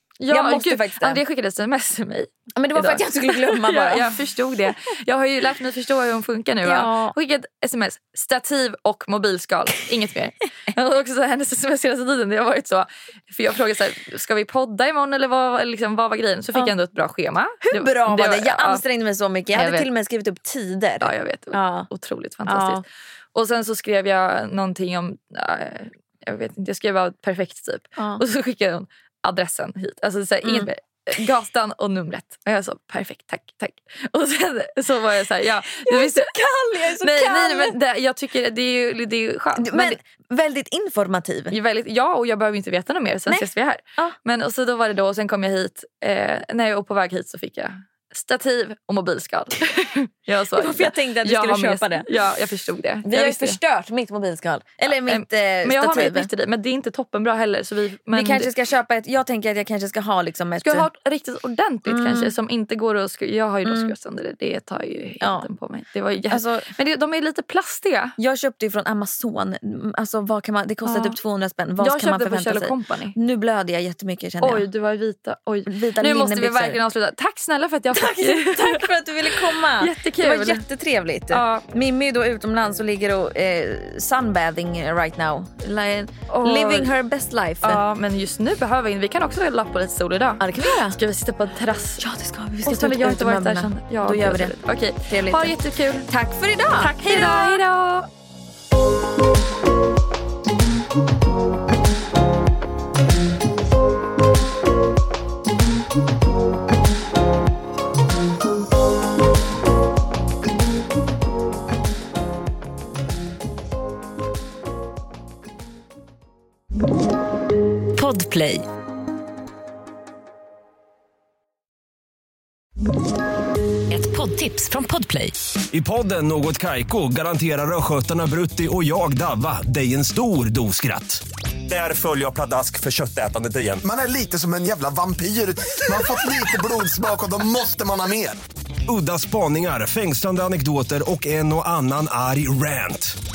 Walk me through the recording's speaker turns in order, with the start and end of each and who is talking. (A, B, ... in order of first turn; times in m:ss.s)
0:00.2-0:18.8 A
0:00.3-0:01.2 B
0:02.6-0:04.2 B
0:06.6-0:07.2 B
0:17.6-0:21.9 B
0:19.5-0:19.9 A
0:21.0-0:36.3 A
0:22.5-0:22.8 B
0:28.0-0:28.2 B
0:30.4-0:30.7 B
0:35.8-0:37.7 B
0:37.0-0:40.0 A
0:39.6-0:41.6 B
0:41.5-0:53.6 A
0:43.3-0:44.2 B
0:50.5-0:52.1 B
0:53.0-0:56.3 B
0:54.9-0:58.5 A
0:58.1-1:00.9 B
1:00.6-1:08.2 A
1:01.9-1:02.4 B
1:03.6-1:03.9 B
1:05.2-1:05.5 B
1:06.3-1:06.7 B
1:08.2-1:14.7 B
1:10.8-1:11.2 A
1:11.8-1:13.2 A
1:14.4-1:20.7 A
1:15.7-1:16.8 B
1:17.9-1:27.8 B
1:21.3-1:21.7 A
1:26.3-1:27.0 A
1:27.6-1:32.1 A
1:30.4-1:31.0 B
1:32.0-1:35.5 B
1:32.6-1:36.1 A
1:36.1-1:37.6 B
1:36.8-1:38.1 A
1:58.0-1:58.6 C
2:03.9-2:05.3 C
2:05.7-2:13.8 D
2:13.8-2:18.4 E
2:18.9-2:23.2 D